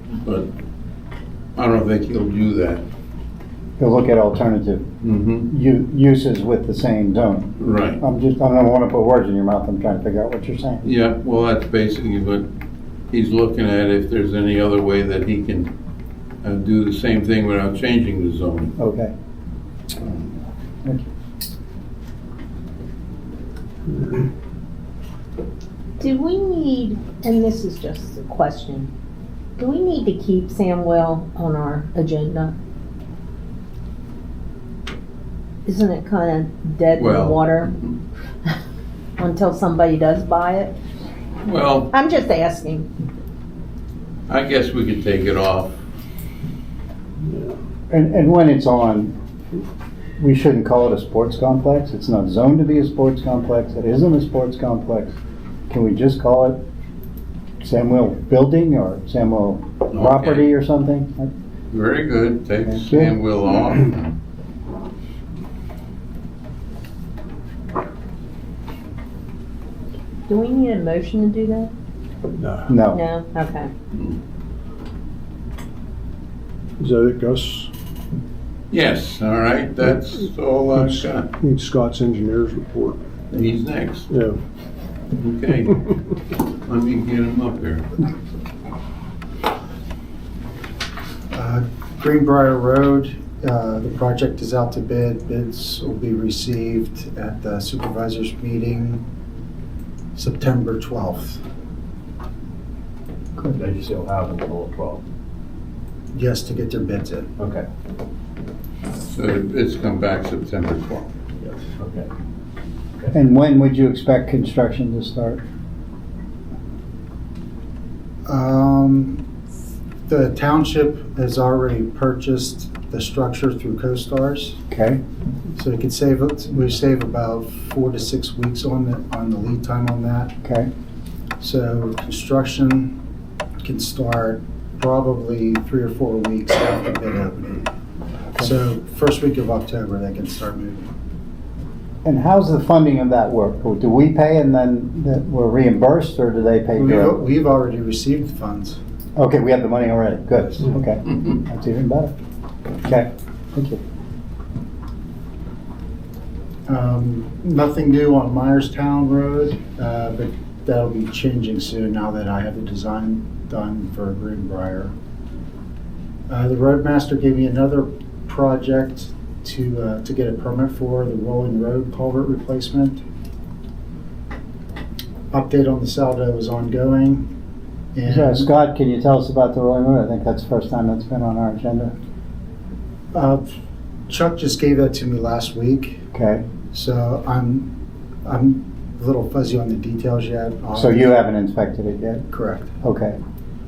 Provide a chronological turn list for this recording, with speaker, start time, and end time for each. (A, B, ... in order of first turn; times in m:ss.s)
0:00.1-0:00.5 A
0:01.6-0:02.8 A
0:03.8-0:04.9 B
0:05.0-0:05.5 A
0:05.5-0:10.9 B
0:07.6-0:08.0 A
0:10.8-0:12.5 A
0:13.1-0:15.7 A
0:16.4-0:18.7 A
0:18.8-0:19.1 B
0:23.9-0:24.2 C
0:26.0-0:28.9 D
0:29.6-0:32.5 D
0:35.7-0:37.7 D
0:37.0-0:37.9 A
0:39.2-0:40.8 D
0:41.4-0:41.9 A
0:41.9-0:42.9 D
0:44.3-0:45.8 A
0:47.3-0:47.6 C
0:47.9-0:49.1 B
0:50.2-0:55.2 B
0:55.7-0:56.6 B
0:57.6-1:01.3 B
0:59.9-1:00.5 A
1:01.7-1:04.1 A
1:02.7-1:03.2 B
1:10.3-1:11.7 D
1:12.4-1:12.7 C
1:12.7-1:13.0 B
1:12.9-1:13.7 D
1:13.9-1:14.2 A
1:16.8-1:17.7 C
1:18.7-1:21.3 A
1:20.8-1:23.0 C
1:23.3-1:24.1 A
1:24.1-1:24.4 C
1:25.2-1:25.9 A
1:26.7-1:27.9 A
1:31.3-1:39.0 E
1:40.2-1:41.4 E
1:43.4-1:45.0 F
1:46.1-1:47.3 E
1:47.4-1:47.6 F
1:49.1-1:51.1 A
1:51.4-1:52.1 F
1:53.1-1:55.4 B
1:58.3-1:59.2 E
2:00.1-2:04.6 E
2:04.7-2:05.0 B
2:05.6-2:10.4 E
2:10.4-2:10.7 B
2:11.4-2:13.0 E
2:13.6-2:17.7 E
2:18.4-2:20.9 E
2:22.0-2:27.2 B
2:26.8-2:28.8 E
2:29.2-2:32.1 B
2:32.8-2:33.8 B
2:36.7-2:44.9 E
2:46.3-2:53.0 E
2:55.3-2:57.3 E
2:58.0-2:58.4 E
2:58.1-3:01.9 B
3:03.1-3:03.5 E
3:04.1-3:06.0 E
3:06.1-3:06.4 B
3:06.7-3:07.7 E
3:08.2-3:11.2 E
3:10.7-3:12.3 B
3:12.3-3:12.7 E
3:12.8-3:13.2 B